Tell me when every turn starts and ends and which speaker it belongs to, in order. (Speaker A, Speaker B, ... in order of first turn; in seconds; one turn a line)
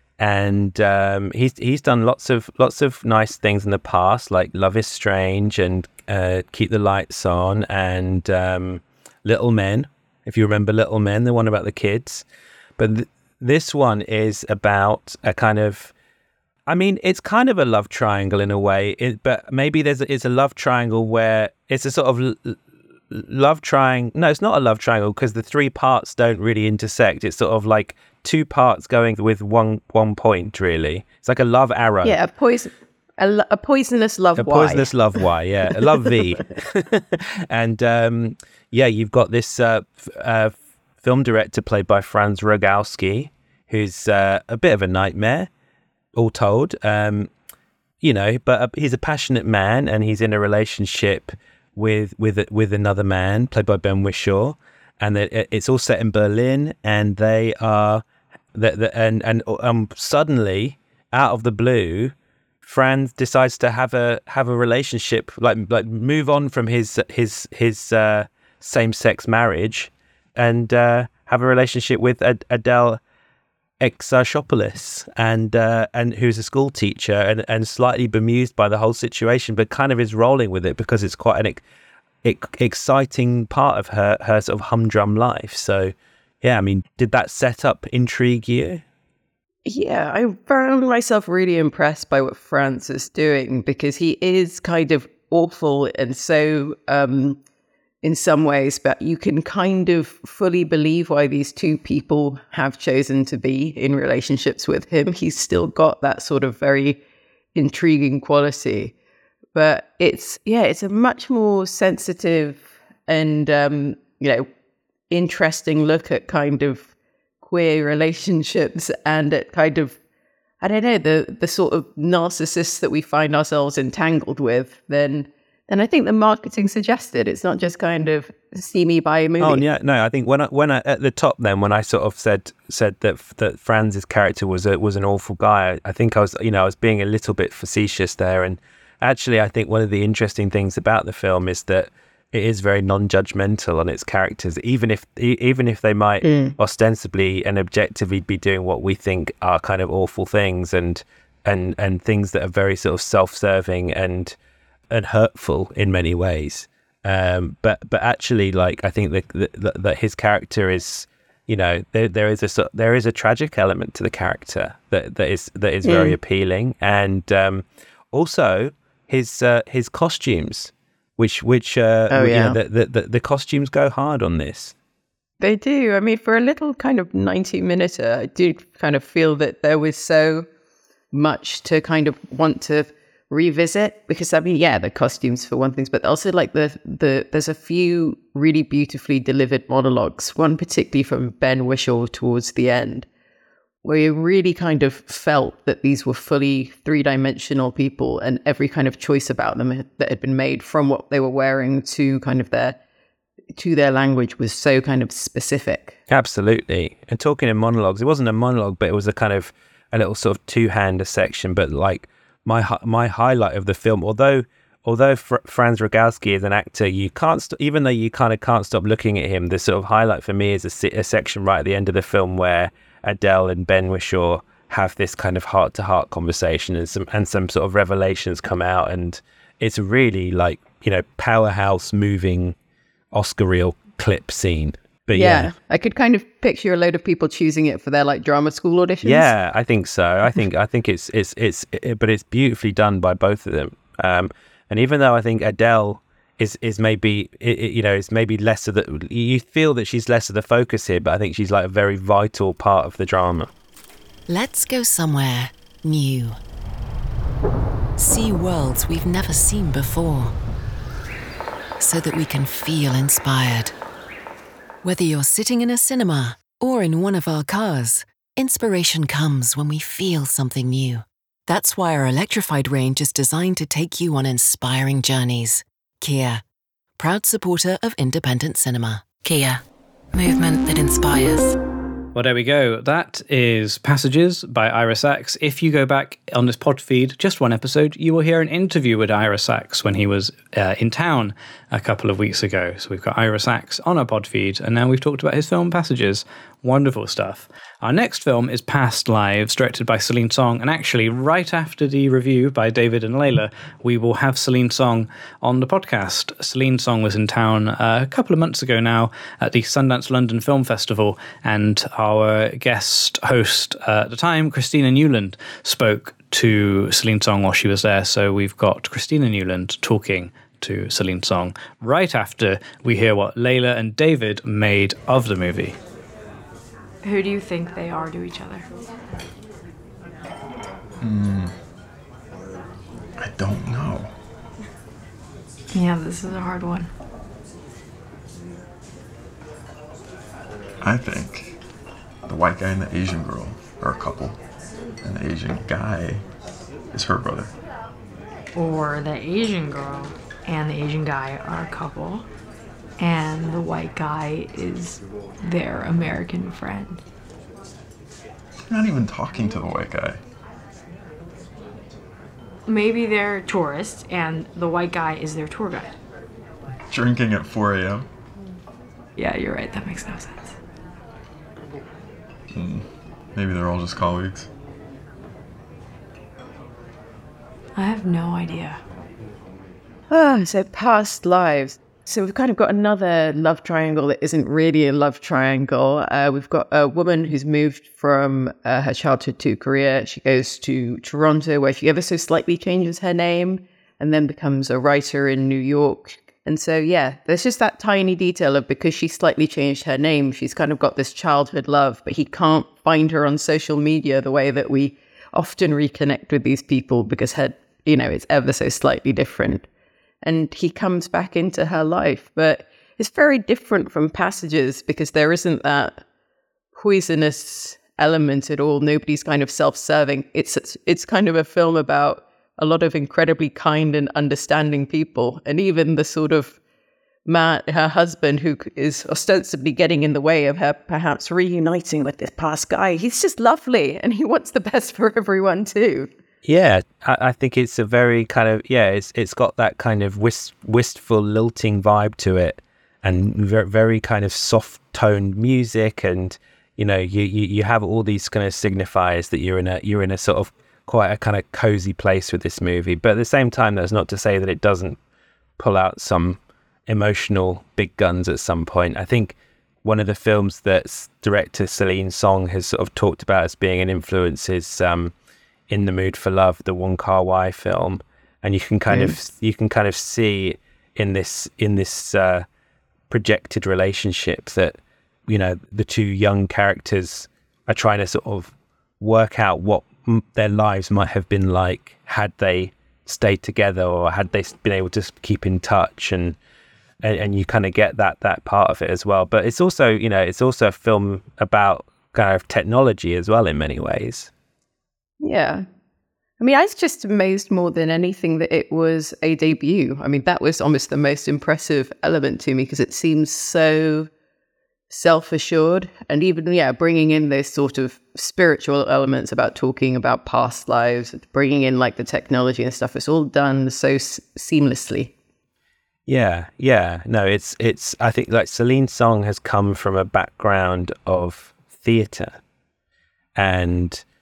Speaker A: 0.2-12.2
Speaker A: 12.8-15.9
Speaker A: 16.7-22.6
Speaker A: 23.1-32.2
Speaker B: 32.0-34.9
Speaker A: 34.4-45.5
Speaker A: 46.1-47.3
Speaker A: 48.0-58.0
Speaker A: 58.5-73.0
Speaker A: 73.8-81.6
Speaker A: 82.2-88.8
Speaker B: 89.6-97.4
Speaker B: 98.0-107.0
Speaker B: 107.5-108.9
Speaker B: 109.5-114.5
Speaker B: 115.1-116.9
Speaker B: 117.4-120.0
Speaker B: 120.6-129.6
Speaker A: 129.4-154.3
Speaker B: 146.2-146.5
Speaker A: 154.9-174.7
Speaker B: 165.8-166.2
Speaker B: 172.1-172.6
Speaker B: 175.4-180.5
Speaker B: 181.1-193.1
Speaker B: 193.8-202.8
Speaker B: 203.5-205.9
Speaker A: 206.1-232.6
Speaker A: 233.1-235.5
Speaker B: 235.1-239.3
Speaker A: 239.0-253.5
Speaker C: 254.3-256.4
Speaker C: 258.0-260.3
Speaker C: 261.8-263.7
Speaker C: 264.8-276.4
Speaker C: 277.0-279.6
Speaker C: 280.1-281.6
Speaker D: 282.1-325.7
Speaker E: 327.0-328.7
Speaker F: 331.0-331.5
Speaker F: 333.2-334.1
Speaker E: 335.7-336.9
Speaker F: 340.8-341.6
Speaker F: 342.2-344.4
Speaker F: 345.0-346.2
Speaker F: 346.9-347.5
Speaker E: 348.5-352.2
Speaker E: 353.0-357.0
Speaker F: 358.7-360.2
Speaker E: 362.7-365.9
Speaker F: 366.9-368.1
Speaker E: 369.2-370.5
Speaker F: 372.5-374.5
Speaker E: 377.8-378.8
Speaker B: 380.1-409.6
Speaker B: 410.2-416.0
Speaker B: 416.7-426.6
Speaker B: 427.2-436.1
Speaker A: 436.4-455.0
Speaker A: 455.6-465.1
Speaker A: 465.7-472.4
Speaker B: 468.9-469.1
Speaker A: 473.1-486.4
Speaker A: 487.0-494.3
Speaker B: 495.2-495.6
Speaker B: 496.4-504.1
Speaker B: 504.9-515.1
Speaker A: 516.1-522.4
Speaker A: 523.4-524.0